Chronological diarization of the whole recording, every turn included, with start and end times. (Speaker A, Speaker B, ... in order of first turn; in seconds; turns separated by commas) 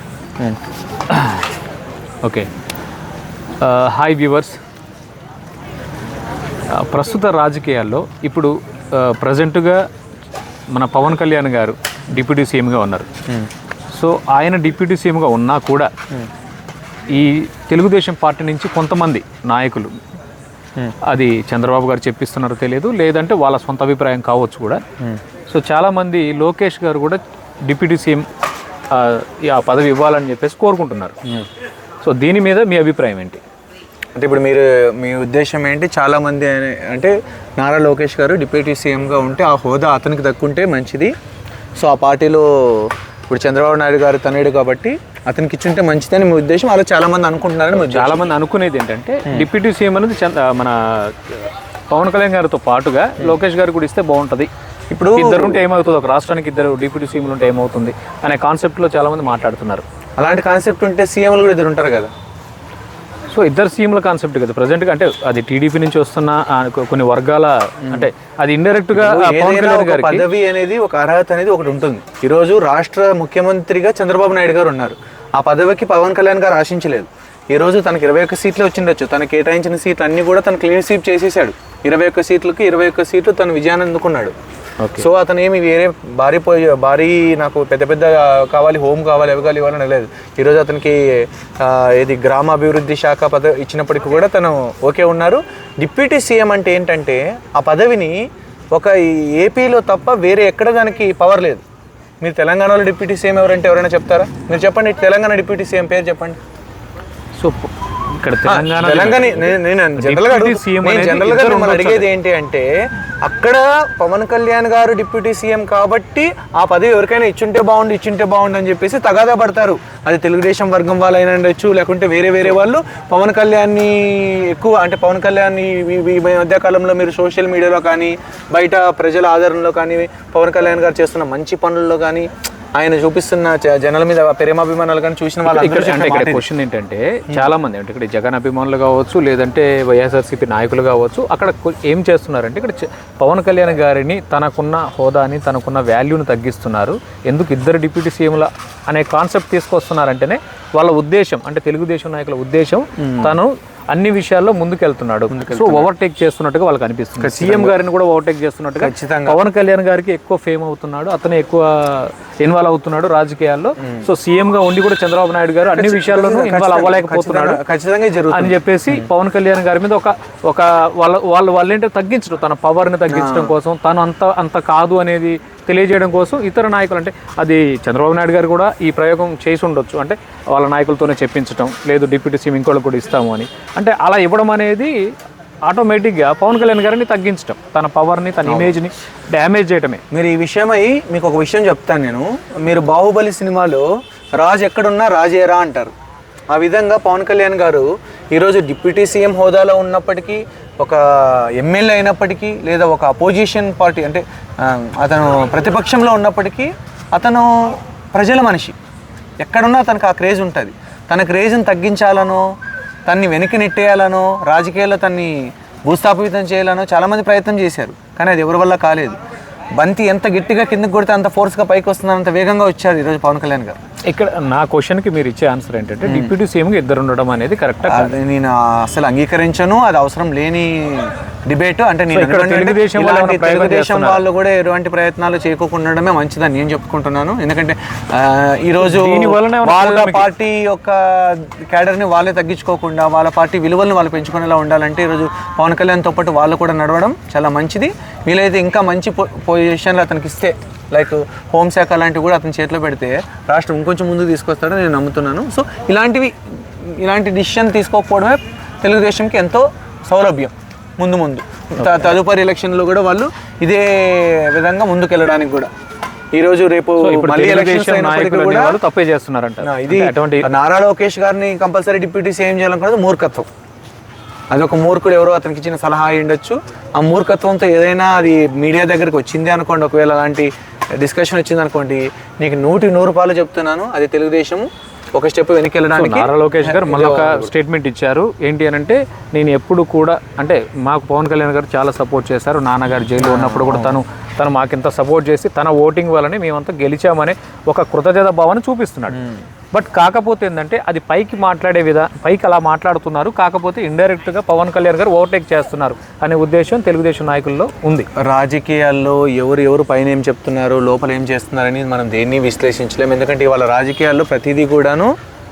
Speaker A: 1.1-1.5, Speaker A: 2.2-2.5, Speaker A: 3.6-4.6, Speaker A: 6.7-9.8, Speaker A: 10.7-13.1, Speaker A: 13.9-15.9, Speaker A: 17.1-19.9, Speaker A: 21.0-24.8, Speaker A: 25.5-28.3, Speaker A: 28.9-31.2, Speaker A: 32.0-33.4, Speaker B: 34.1-41.1, Speaker B: 41.8-48.3, Speaker A: 47.7-54.5, Speaker B: 54.9-55.6, Speaker A: 55.1-59.8, Speaker B: 60.2-62.1, Speaker A: 63.3-70.3, Speaker B: 67.8-68.1, Speaker B: 68.9-84.3, Speaker A: 84.8-85.1, Speaker B: 84.9-98.2, Speaker B: 98.7-101.6, Speaker B: 102.2-106.4, Speaker A: 107.4-112.1, Speaker B: 108.5-112.7, Speaker B: 113.2-136.4, Speaker A: 135.4-167.6, Speaker B: 153.0-153.3, Speaker B: 155.3-155.9, Speaker B: 157.2-157.8, Speaker B: 158.8-159.4, Speaker B: 163.8-164.1, Speaker B: 165.7-169.0, Speaker A: 168.3-184.9, Speaker B: 173.1-173.5, Speaker A: 185.7-190.0, Speaker B: 188.4-188.8, Speaker B: 190.1-195.9, Speaker B: 196.5-208.8, Speaker B: 209.4-212.4, Speaker B: 213.1-219.2, Speaker B: 219.8-223.8, Speaker A: 224.1-228.1, Speaker B: 226.0-226.3, Speaker B: 227.9-265.7, Speaker A: 232.1-234.2, Speaker A: 238.8-240.3, Speaker A: 261.8-262.1, Speaker B: 266.3-268.8, Speaker A: 267.0-270.5, Speaker B: 269.6-273.5, Speaker B: 274.5-287.5, Speaker A: 285.9-299.2, Speaker B: 293.2-294.0, Speaker B: 299.1-299.4, Speaker A: 299.7-308.1, Speaker B: 308.1-315.1